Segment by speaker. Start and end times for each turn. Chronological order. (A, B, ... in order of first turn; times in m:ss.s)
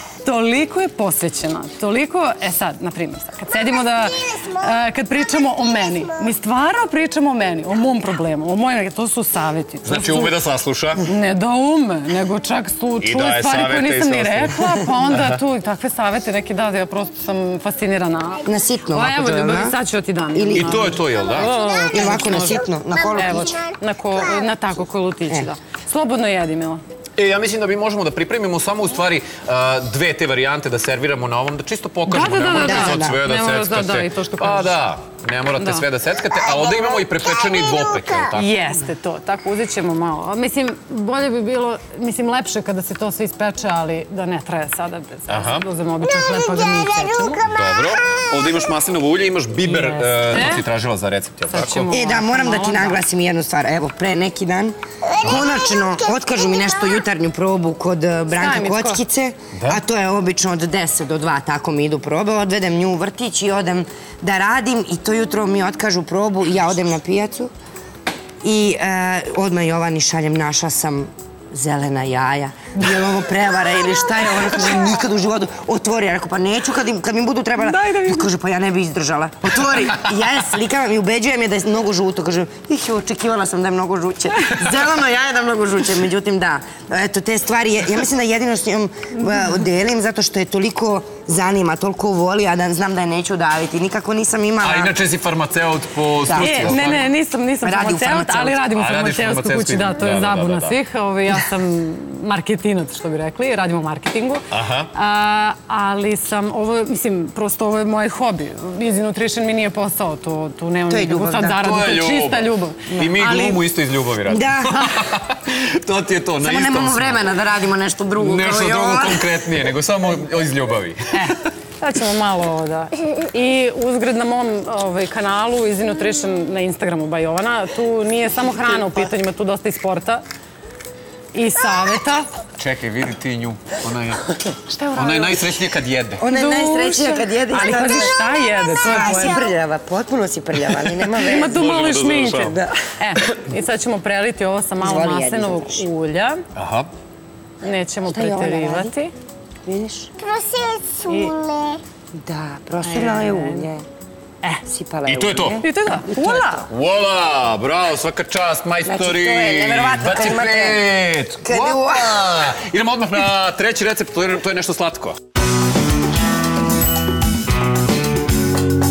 0:00.2-0:10.3 A
0:04.3-0:04.6 B
0:09.8-0:11.0 C
0:11.0-0:26.8 A
0:13.0-0:15.4 C
0:18.4-0:19.8 D
0:20.3-0:21.0 D
0:20.4-0:21.5 C
0:21.1-0:24.5 B
0:21.9-0:23.6 D
0:27.2-0:38.5 C
0:32.1-0:34.8 A
0:32.6-0:33.2 D
0:35.6-0:35.8 A
0:36.4-0:38.3 B
0:38.3-0:47.4 A
0:45.3-0:45.6 C
0:46.0-0:48.7 B
0:47.5-0:51.9 C
0:49.6-0:50.6 A
0:51.5-0:53.0 A
0:51.9-1:07.5 D
0:55.1-0:57.0 B
0:58.4-0:59.0 A
0:59.5-0:59.8 C
1:08.4-1:34.9 D
1:17.6-1:18.3 A
1:34.6-1:37.0 C
1:36.2-1:37.0 D
1:36.4-1:52.9 A
1:37.6-1:38.6 D
1:38.7-1:40.7 C
1:44.5-1:44.9 C
1:50.9-1:51.6 D
1:51.6-1:57.2 C
1:52.9-1:53.6 D
1:54.3-1:55.0 D
1:56.4-1:59.4 D
1:58.2-2:01.3 C
2:01.1-2:10.2 A
2:08.7-2:09.0 D
2:11.3-2:12.3 A
2:12.6-2:14.4 C
2:14.7-2:15.6 A
2:14.9-2:16.2 C
2:16.2-2:18.2 D
2:16.3-2:19.4 A
2:18.8-2:21.6 D
2:21.2-2:26.4 A
2:21.4-2:22.6 C
2:24.8-2:25.9 D
2:26.6-2:26.9 C
2:27.6-2:29.1 A
2:28.1-2:28.9 D
2:29.6-2:30.1 D
2:30.2-2:31.8 B
2:31.1-2:31.3 A
2:32.1-2:33.8 D
2:32.8-2:33.7 A
2:34.6-2:36.4 D
2:35.0-2:35.6 C
2:35.6-2:36.7 A
2:36.7-2:45.2 C
2:38.8-2:40.8 D
2:41.4-2:42.2 D